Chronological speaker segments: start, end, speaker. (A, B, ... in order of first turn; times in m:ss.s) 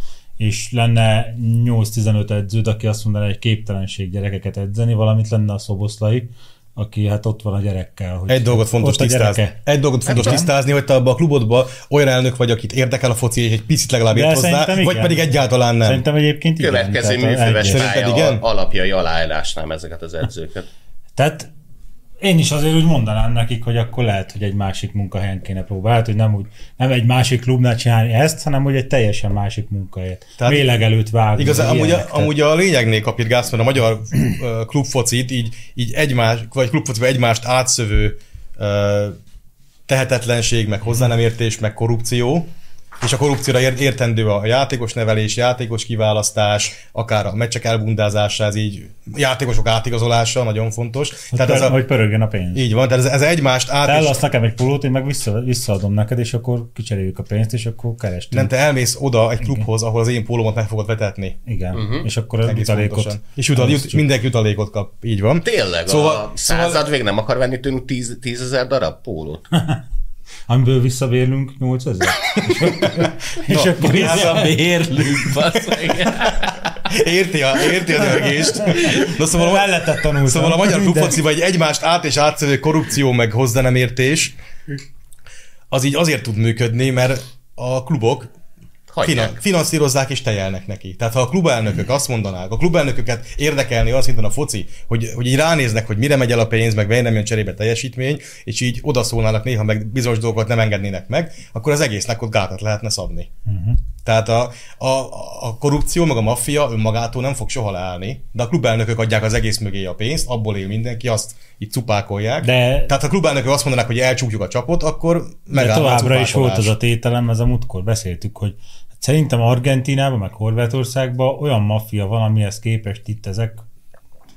0:00.4-0:09.6 A
0:08.3-0:16.0 B
0:10.0-0:10.4 C
0:10.1-0:10.5 A
0:14.1-0:15.2 A
0:15.8-0:17.8 A
0:16.6-0:20.7 C
0:17.7-0:18.4 B
0:21.2-0:21.5 A
0:22.2-0:32.3 A
0:30.4-0:30.7 B
0:31.3-0:39.2 B
0:39.9-0:42.5 B
0:43.0-0:51.8 B
0:51.3-0:52.6 A
0:52.5-0:54.2 B
0:53.8-0:58.5 A
0:58.3-1:01.4 B
1:01.4-1:04.0 A
1:01.7-1:02.0 C
1:02.4-1:06.8 B
1:05.4-1:09.4 C
1:10.5-1:14.5 A
1:13.5-1:14.5 B
1:13.8-1:16.5 D
1:16.8-1:24.3 B
1:18.6-1:21.2 A
1:25.7-1:28.3 B
1:28.9-1:29.3 C
1:29.0-1:43.3 B
1:43.5-1:43.8 A
1:44.0-1:56.7 B
1:52.4-1:52.9 A
1:55.5-2:03.6 A